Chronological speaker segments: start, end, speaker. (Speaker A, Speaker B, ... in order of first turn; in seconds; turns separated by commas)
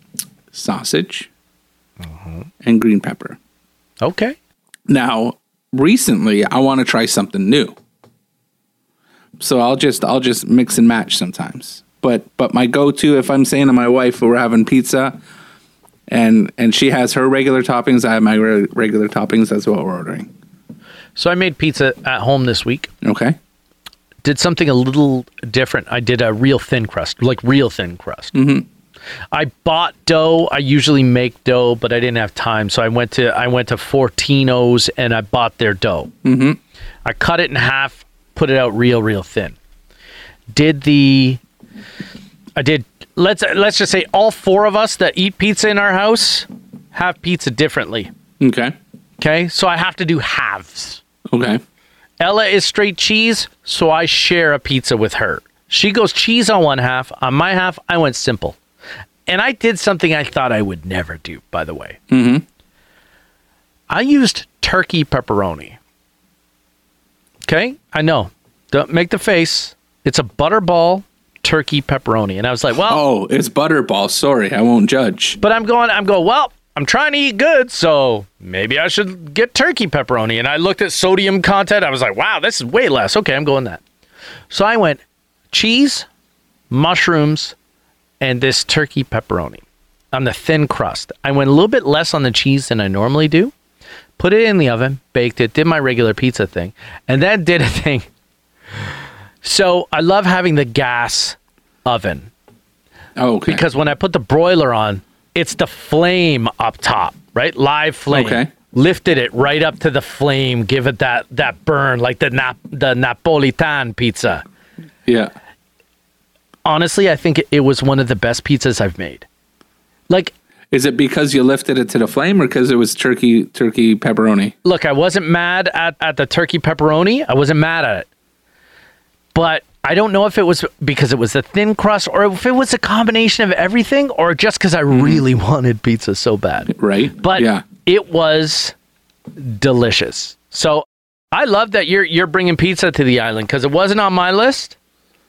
Speaker A: 0.5-1.3, Speaker B: 2.1-2.5, Speaker A: 2.6-3.4, Speaker B: 4.0-4.4, Speaker A: 4.9-7.7, Speaker A: 9.4-15.2, Speaker A: 16.1-20.3, Speaker B: 21.1-22.9, Speaker A: 23.0-23.4, Speaker B: 24.2-28.4, Speaker A: 28.3-28.7, Speaker B: 29.3-36.1, Speaker A: 36.2-36.6, Speaker B: 37.0-39.5, Speaker B: 40.5-41.4, Speaker B: 42.5-48.1, Speaker A: 48.4-48.7, Speaker B: 49.2-51.0, Speaker A: 51.3-51.6, Speaker B: 52.2-58.6, Speaker B: 59.3-62.0, Speaker A: 62.1-62.4, Speaker B: 63.9-65.8, Speaker B: 67.5-73.0, Speaker A: 72.7-75.4, Speaker B: 75.4-83.8, Speaker B: 84.5-86.1, Speaker B: 86.7-87.5, Speaker B: 88.2-93.5, Speaker B: 94.2-98.1, Speaker B: 99.4-102.3, Speaker A: 103.2-103.6, Speaker B: 103.5-114.4, Speaker A: 108.1-108.5, Speaker A: 115.0-115.3, Speaker B: 116.6-119.2, Speaker A: 120.7-124.5, Speaker B: 124.6-128.1, Speaker B: 129.3-138.7, Speaker A: 134.9-135.2, Speaker A: 136.7-137.6, Speaker B: 139.4-144.8